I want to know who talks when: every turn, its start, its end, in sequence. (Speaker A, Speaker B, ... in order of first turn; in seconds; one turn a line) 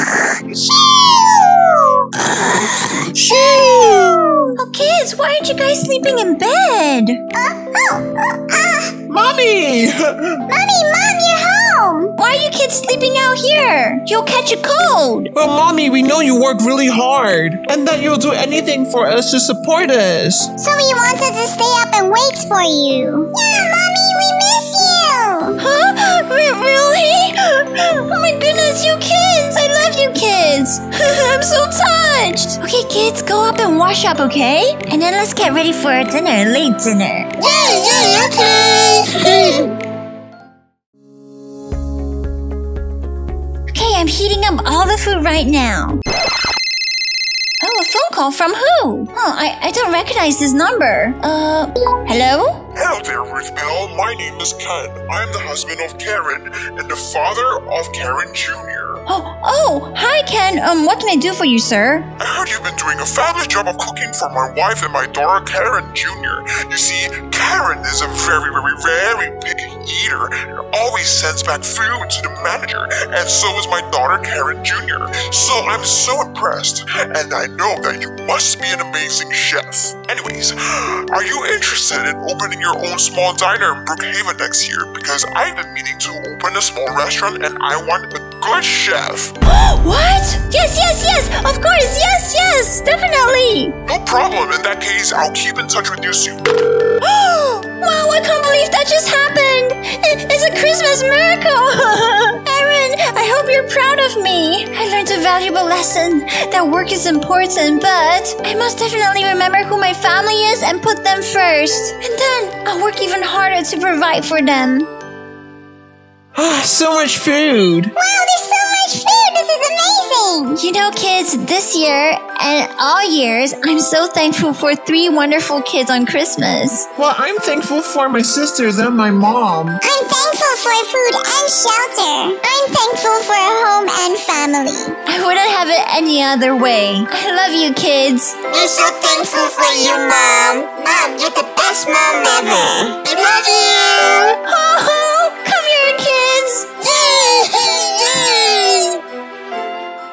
Speaker A: 0.3-4.5
Speaker B: 3.1-3.9
Speaker C: 4.5-7.2
Speaker A: 7.3-9.0
Speaker B: 9.1-10.4
Speaker A: 10.5-12.1
Speaker C: 12.2-15.3
Speaker B: 15.3-20.5
Speaker A: 20.6-25.6
Speaker C: 25.6-37.4
Speaker A: 37.4-39.7
Speaker C: 43.7-46.0
Speaker C: 47.6-52.6
Speaker D: 52.7-59.0
Speaker C: 59.1-62.1
Speaker D: 62.2-89.3
Speaker C: 89.4-93.8
Speaker D: 93.9-96.6
Speaker C: 97.0-114.9
Speaker B: 116.3-117.9
Speaker A: 118.0-120.6
Speaker C: 120.6-126.9
Speaker B: 127.0-129.8
Speaker A: 129.8-135.0
Speaker C: 135.1-138.4
Speaker A: 138.5-144.3
Speaker C: 144.4-147.0
Speaker A: 147.0-148.9